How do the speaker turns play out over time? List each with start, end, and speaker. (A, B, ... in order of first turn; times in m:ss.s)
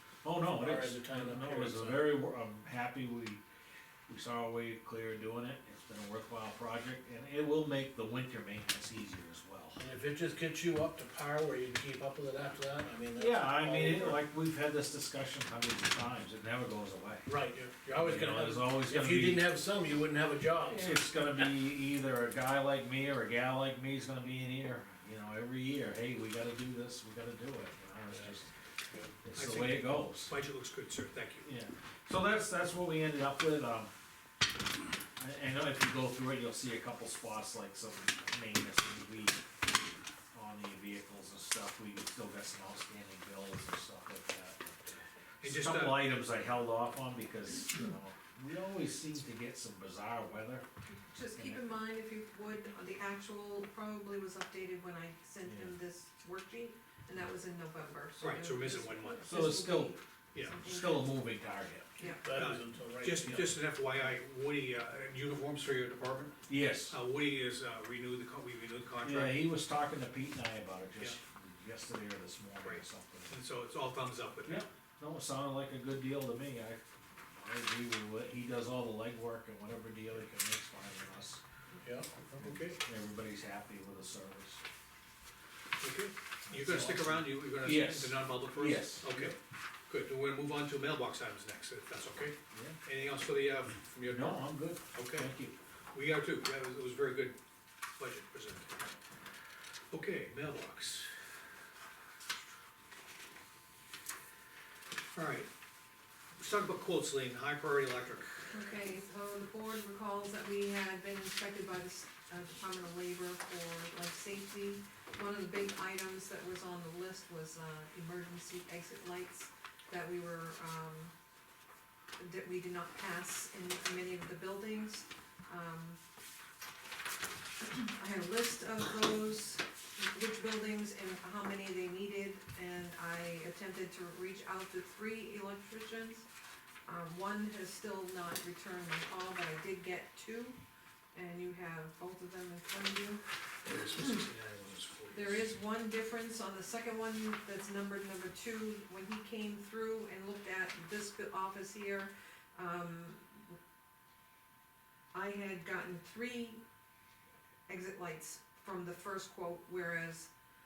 0:00.2-0:03.4 A
0:00.4-0:02.2 B
0:04.1-0:09.8 A
0:09.8-0:14.2 B
0:13.2-0:17.3 A
0:17.3-0:21.1 B
0:17.9-0:19.5 A
0:20.7-0:28.5 A
0:28.1-0:28.4 B
0:29.2-0:30.3 A
0:29.4-0:31.5 C
0:31.4-0:33.9 A
0:35.2-0:39.4 A
0:40.3-0:50.6 A
0:45.4-0:46.1 C
0:50.9-1:01.2 D
0:51.4-0:51.6 A
0:55.4-0:55.8 A
0:58.2-0:59.4 C
0:59.3-1:00.0 A
1:00.5-1:01.9 A
1:02.0-1:02.5 D
1:02.2-1:03.6 B
1:02.3-1:06.4 C
1:06.5-1:07.0 A
1:06.9-1:09.5 C
1:09.0-1:13.3 A
1:12.6-1:14.7 C
1:14.4-1:16.8 A
1:17.3-1:21.4 A
1:21.8-1:22.8 B
1:22.4-1:24.6 A
1:25.8-1:29.4 C
1:26.6-1:29.4 A
1:29.9-1:35.3 C
1:32.5-1:32.8 A
1:34.0-1:35.6 A
1:35.9-1:37.4 C
1:38.0-1:38.8 C
1:39.9-1:41.1 C
1:45.1-1:45.5 C
1:46.4-1:48.5 C
1:48.5-2:01.1 D
2:02.2-2:06.0 D
2:07.8-2:16.3 D
2:16.8-2:20.6 D
2:21.1-2:23.2 D
2:23.7-2:25.5 C
2:24.0-2:24.2 D
2:25.1-2:33.6 D
2:35.1-2:36.6 D
2:37.7-2:40.3 D